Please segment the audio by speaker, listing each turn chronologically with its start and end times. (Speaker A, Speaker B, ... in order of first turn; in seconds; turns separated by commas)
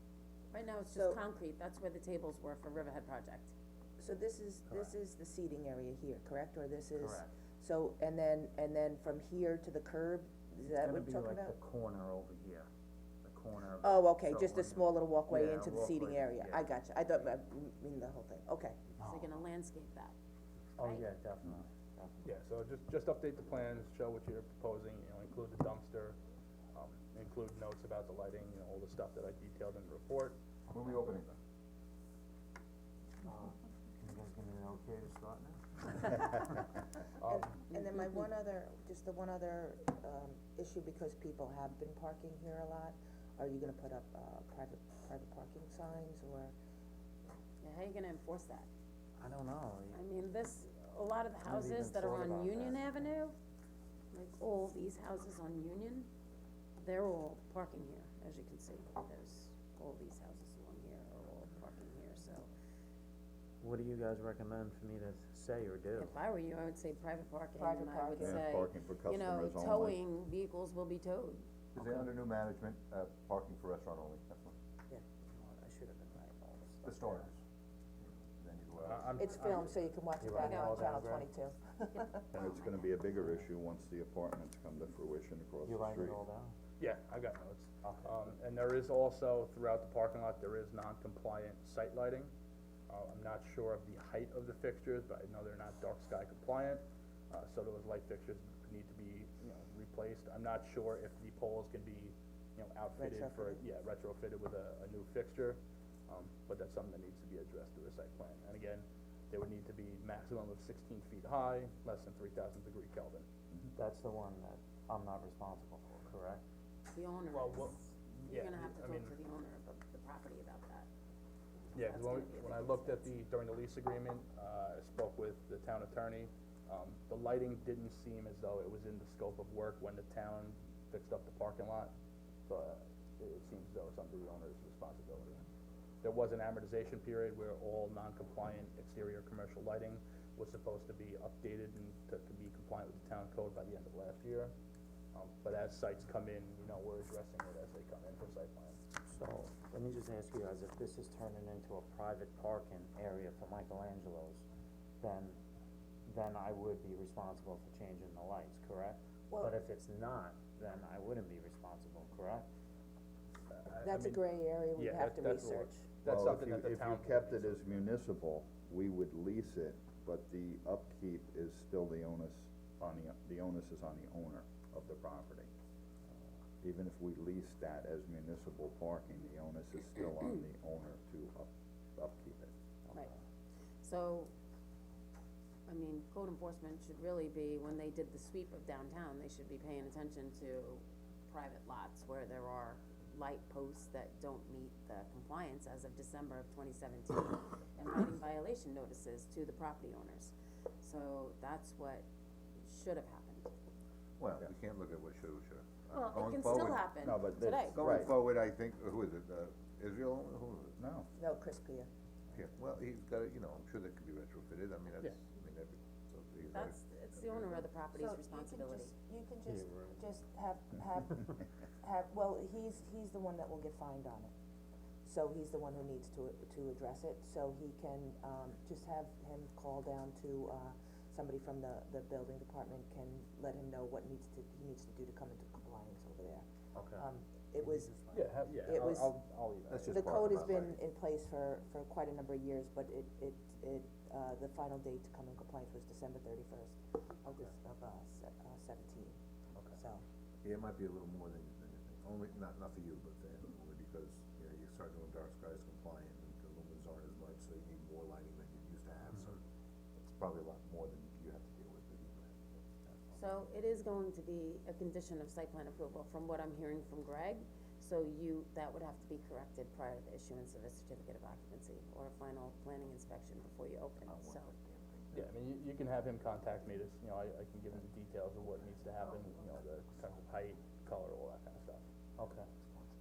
Speaker A: 0.5-3.5, Speaker B: 0.8-1.2, Speaker B: 4.0-11.5, Speaker C: 4.7-5.0, Speaker C: 7.0-7.3, Speaker C: 10.7-12.7, Speaker C: 13.2-16.7, Speaker B: 13.8-18.9, Speaker A: 19.0-20.1, Speaker C: 20.8-22.2, Speaker A: 20.8-21.1, Speaker D: 22.2-26.2, Speaker D: 26.7-30.4, Speaker E: 30.7-31.3, Speaker C: 33.3-36.7, Speaker D: 37.2-37.5, Speaker B: 37.2-46.5, Speaker A: 47.6-48.7, Speaker C: 49.2-50.0, Speaker A: 49.9-53.4, Speaker C: 51.4-53.0, Speaker A: 54.1-56.1, Speaker A: 56.8-62.5, Speaker C: 63.6-66.2, Speaker A: 66.0-71.4, Speaker B: 67.6-68.4, Speaker E: 68.2-70.0, Speaker E: 71.8-72.8, Speaker F: 71.8-74.5, Speaker C: 75.4-77.3, Speaker F: 76.8-77.4, Speaker F: 78.4-79.1, Speaker D: 78.8-79.7, Speaker B: 79.2-82.3, Speaker C: 80.2-81.3, Speaker A: 80.4-80.8, Speaker A: 81.9-82.9, Speaker E: 82.3-86.2, Speaker C: 85.6-86.5, Speaker D: 86.8-92.3, Speaker C: 87.8-88.2, Speaker D: 92.9-113.3, Speaker B: 103.0-103.6, Speaker C: 113.8-116.4, Speaker A: 116.9-120.9, Speaker D: 117.3-119.1, Speaker D: 121.7-131.9, Speaker A: 121.8-123.1, Speaker D: 132.5-135.4, Speaker D: 136.0-144.5, Speaker D: 145.1-148.8, Speaker C: 149.1-154.4, Speaker C: 155.0-155.4, Speaker C: 156.1-162.5, Speaker D: 163.5-164.2, Speaker B: 163.8-165.9, Speaker D: 164.8-167.7, Speaker E: 166.1-175.5, Speaker E: 176.6-182.5, Speaker A: 183.8-184.3, Speaker A: 185.7-202.1, Speaker A: 202.6-203.5, Speaker F: 204.2-206.9, Speaker A: 205.9-208.1, Speaker E: 207.0-208.2, Speaker F: 207.7-210.8, Speaker E: 210.8-211.1, Speaker B: 211.2-211.9, Speaker F: 212.3-217.6, Speaker A: 216.5-218.9, Speaker B: 217.9-221.3, Speaker C: 219.5-220.0, Speaker B: 221.8-224.3, Speaker B: 225.0-237.9, Speaker C: 236.8-237.1, Speaker C: 237.6-238.2, Speaker D: 238.1-240.5, Speaker B: 238.6-239.2, Speaker F: 239.7-240.7, Speaker B: 239.9-249.2, Speaker E: 239.9-240.3, Speaker B: 249.7-250.0, Speaker F: 250.4-259.4, Speaker F: 260.0-262.6, Speaker A: 263.1-274.6, Speaker C: 274.1-274.4, Speaker D: 275.1-281.9, Speaker C: 282.2-282.9